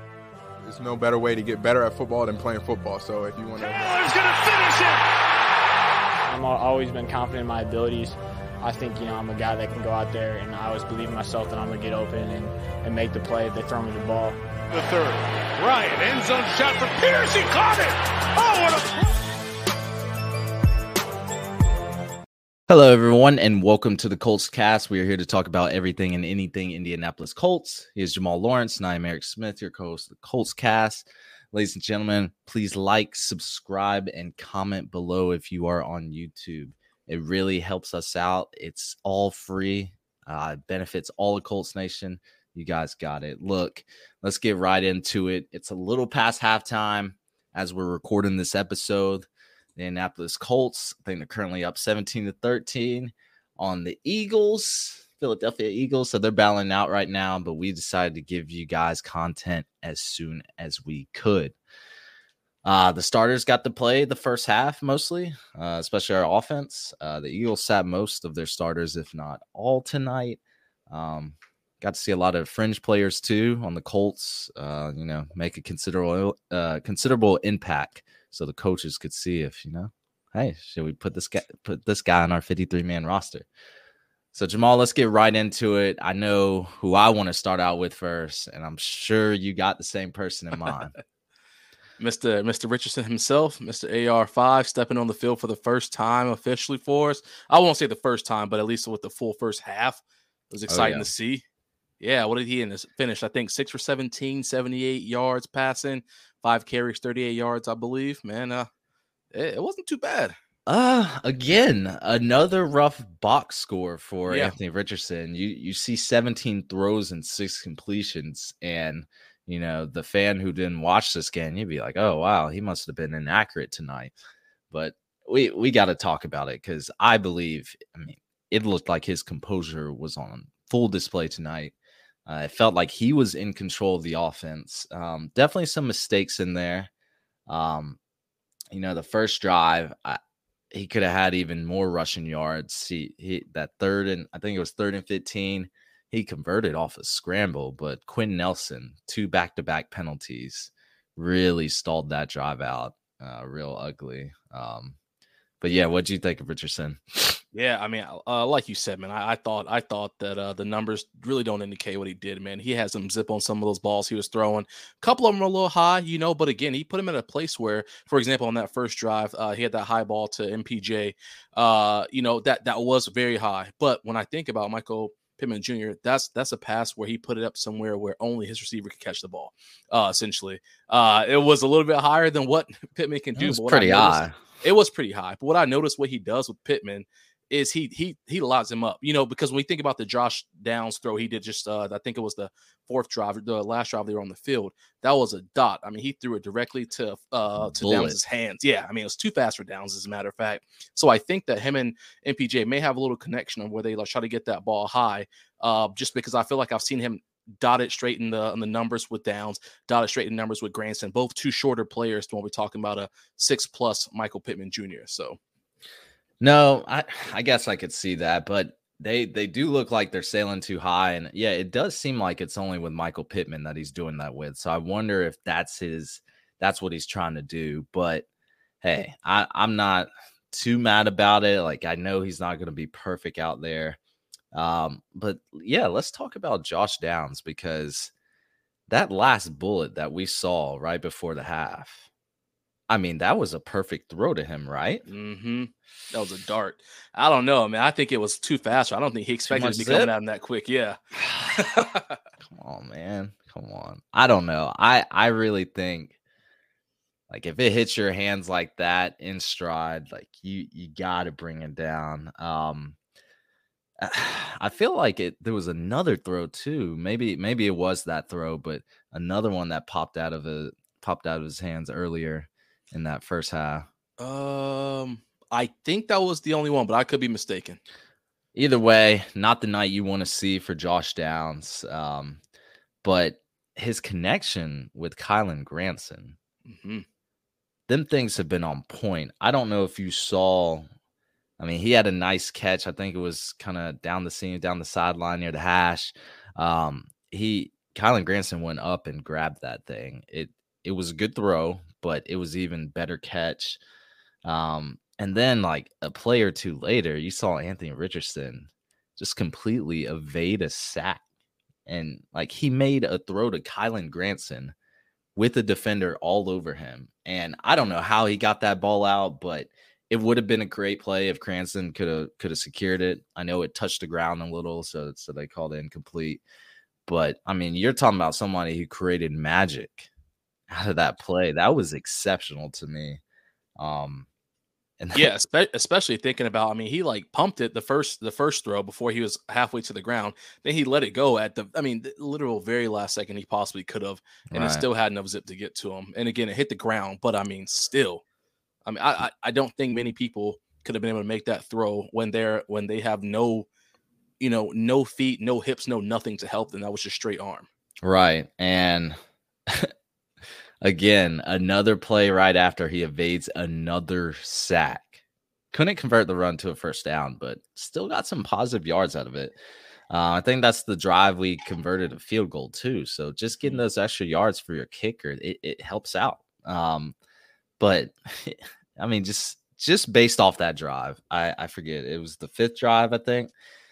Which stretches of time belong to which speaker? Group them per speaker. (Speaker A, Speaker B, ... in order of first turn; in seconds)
Speaker A: 0.6-3.9
Speaker B: 3.6-5.0, 14.7-19.2
Speaker C: 6.2-14.4
Speaker D: 22.7-61.5, 62.6-83.5, 84.3-90.9, 100.7-101.1, 110.7-124.1, 124.7-131.7, 132.2-136.9, 137.5-138.0, 138.7-140.2, 140.7-155.0, 155.6-157.4, 183.4-184.4, 197.8-198.2, 216.4-228.2, 228.8-234.0, 234.5-238.1, 238.9-242.1, 242.9-245.0, 249.5-250.1, 251.2-251.6, 252.4-256.1, 257.3-263.0, 264.0-273.9, 278.5-282.4, 283.0-286.4, 287.9-290.9, 291.6-303.8, 304.4-311.2, 311.9-314.7, 315.4-326.4, 327.1-330.1, 330.7-333.2, 333.8-334.3, 335.0-335.3, 344.5-344.8, 358.0-359.9, 360.8-365.2, 365.7-369.6, 370.1-377.1, 377.8-383.5
Speaker E: 92.0-101.4, 102.0-108.7, 109.3-110.3, 114.3-114.5, 157.5-215.4, 245.1-251.0, 251.5-252.2, 274.2-277.8, 286.6-287.0, 335.1-348.2, 348.8-353.7, 354.4-357.7